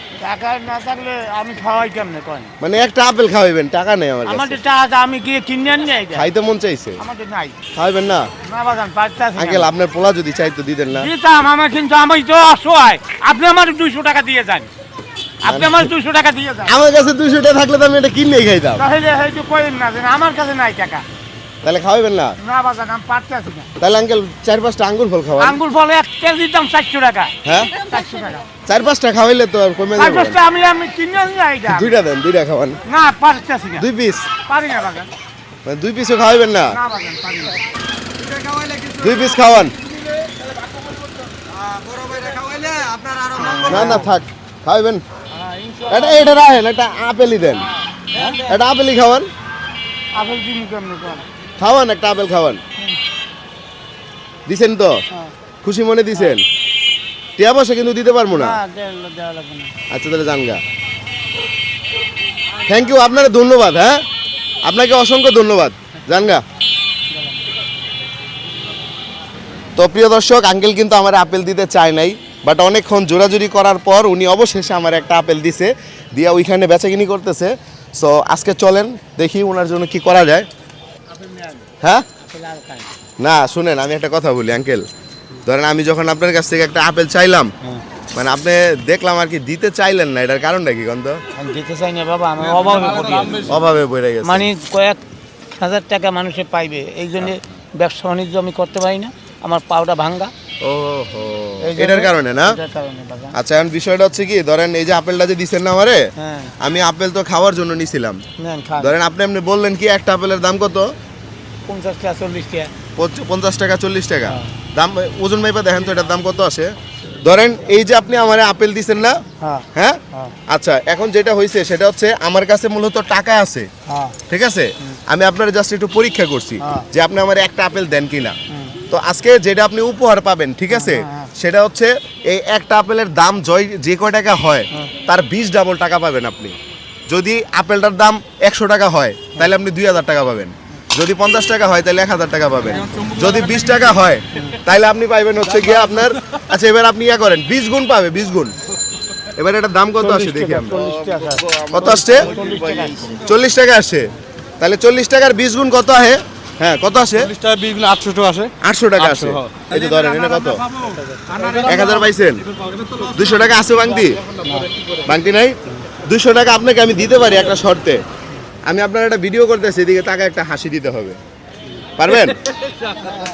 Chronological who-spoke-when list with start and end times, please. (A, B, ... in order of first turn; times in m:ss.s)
0:00.2-0:02.5 A
0:02.6-0:04.6 B
0:04.2-0:06.3 A
0:06.1-0:07.0 B
0:07.0-0:07.6 A
0:07.7-0:08.3 B
0:08.4-0:09.7 A
0:09.4-0:11.1 B
0:10.9-0:14.7 A
0:15.4-0:16.8 A
0:15.5-0:15.9 B
0:16.7-0:18.8 B
0:18.8-0:21.0 A
0:21.6-0:22.4 B
0:22.4-0:23.7 A
0:23.8-0:25.6 B
0:25.4-0:28.5 A
0:27.4-0:27.7 B
0:28.7-0:30.4 B
0:30.0-0:32.0 A
0:31.7-0:32.8 B
0:32.9-0:33.9 A
0:33.8-0:34.3 B
0:34.4-0:35.1 A
0:35.6-0:36.8 B
0:36.7-0:37.6 A
0:38.2-0:39.2 C
0:39.0-0:39.7 B
0:41.5-0:43.6 C
0:43.4-0:44.1 A
0:43.6-0:45.0 B
0:45.3-0:46.3 A
0:45.9-0:47.7 B
0:48.1-0:48.5 A
0:48.3-0:49.3 B
0:50.1-0:51.3 A
0:51.6-0:52.6 B
0:54.5-0:55.0 B
0:55.6-0:56.4 B
0:57.4-0:58.6 B
0:58.3-0:59.7 A
0:59.9-1:00.6 B
1:02.7-1:04.0 B
1:04.6-1:06.4 B
1:07.1-1:07.4 A
1:09.8-1:20.5 B
1:21.1-1:21.7 A
1:21.8-1:22.1 B
1:22.2-1:22.9 A
1:23.2-1:24.9 B
1:25.4-1:27.5 B
1:28.1-1:31.2 B
1:31.3-1:33.6 A
1:32.8-1:33.4 C
1:33.4-1:34.5 B
1:34.2-1:35.0 A
1:35.6-1:40.3 A
1:40.6-1:42.6 B
1:41.6-1:43.4 A
1:43.3-1:46.1 B
1:46.2-1:46.5 A
1:46.6-1:48.2 B
1:48.4-1:49.0 A
1:48.8-1:50.9 B
1:51.7-1:52.7 A
1:53.0-1:59.2 B
1:54.3-1:54.5 A
1:59.4-2:00.4 A
1:59.7-2:03.7 B
2:03.9-2:04.2 A
2:04.3-2:08.4 B
2:06.6-2:06.9 A
2:08.5-2:08.8 A
2:08.9-2:16.6 B
2:10.7-2:11.3 A
2:17.1-2:28.5 B
2:22.8-2:23.2 A
2:22.9-2:23.8 C
2:24.3-2:24.6 A
2:29.4-2:30.8 B
2:30.0-2:33.2 A
2:30.8-2:33.2 C
2:31.7-2:32.3 B
2:33.2-2:37.3 B
2:37.2-2:41.8 C
2:38.6-2:40.7 B
2:40.8-2:41.9 A
2:41.6-2:42.4 B
2:42.6-2:43.2 C
2:43.0-2:44.2 B
2:44.4-2:44.8 A
2:45.0-2:48.0 B
2:48.7-2:51.2 B
2:52.0-2:52.4 B